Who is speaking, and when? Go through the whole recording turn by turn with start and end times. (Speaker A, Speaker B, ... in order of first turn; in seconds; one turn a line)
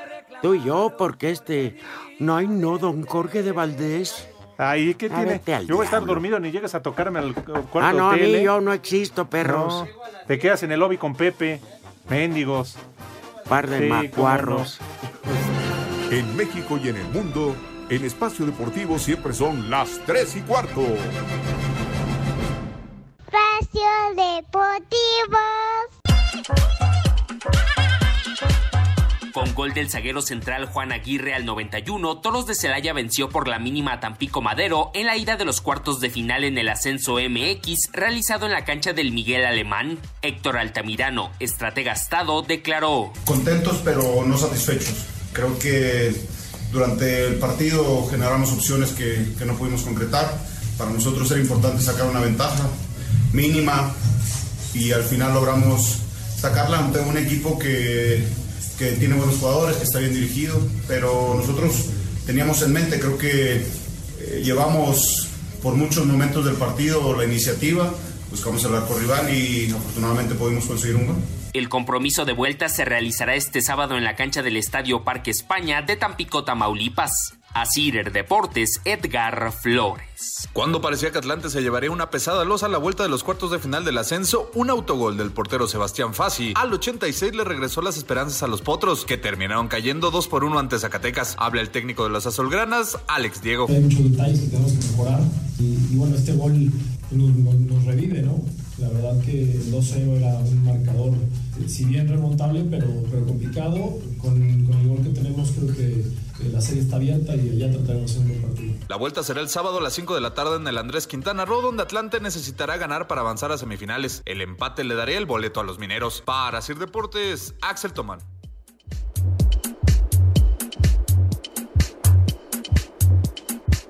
Speaker A: 0.4-4.3
Speaker B: 4.6-8.5
Speaker A: 5.1-6.2
Speaker A: 7.8-9.9
Speaker B: 9.4-12.8
Speaker A: 13.5-14.9
Speaker B: 13.8-14.7
Speaker C: 16.1-21.1
Speaker D: 23.3-25.9
Speaker E: 29.3-43.1
Speaker F: 43.2-52.7
Speaker F: 53.3-54.0
Speaker F: 54.7-71.2
Speaker E: 71.5-80.5
Speaker G: 80.5-93.7
Speaker H: 93.7-108.8
Speaker G: 108.9-118.2